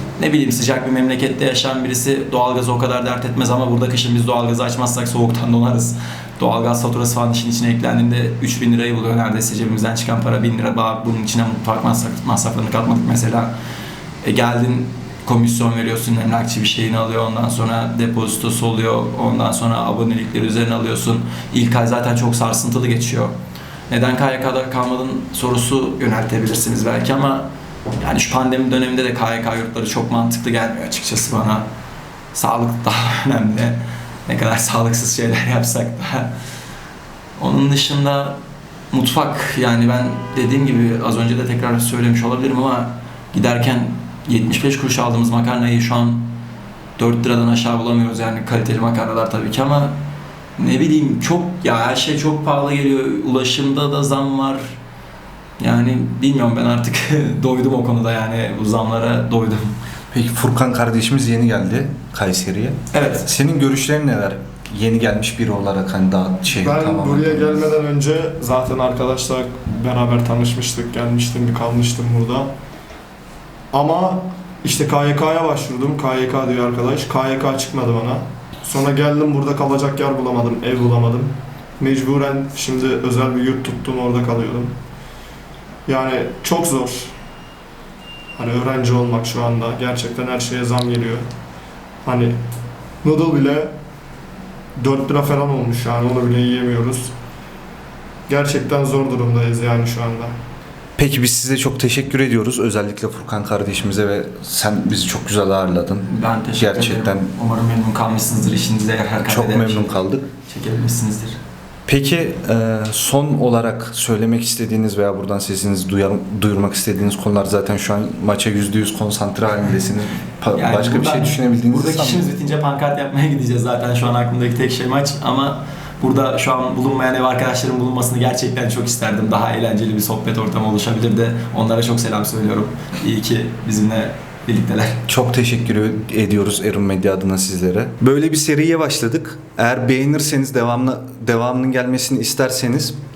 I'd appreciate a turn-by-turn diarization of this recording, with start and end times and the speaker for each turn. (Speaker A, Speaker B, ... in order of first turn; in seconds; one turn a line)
Speaker A: 0.2-13.5
Speaker A: 14.2-23.4
Speaker A: 23.9-31.7
Speaker A: 32.3-36.3
Speaker A: 37.4-38.4
Speaker A: 38.9-46.4
Speaker A: 47.0-50.0
Speaker A: 50.6-54.8
Speaker A: 55.6-59.7
Speaker B: 60.1-67.7
Speaker A: 62.9-63.3
Speaker C: 66.5-72.5
Speaker C: 73.7-84.7
Speaker C: 85.8-87.1
Speaker C: 88.3-91.2
Speaker C: 92.0-92.4
Speaker C: 93.0-93.7
Speaker C: 94.8-97.1
Speaker C: 98.3-100.3
Speaker B: 101.0-107.3
Speaker A: 106.1-111.4
Speaker B: 109.2-110.3
Speaker B: 111.9-122.3
Speaker A: 120.5-135.0
Speaker B: 135.1-143.0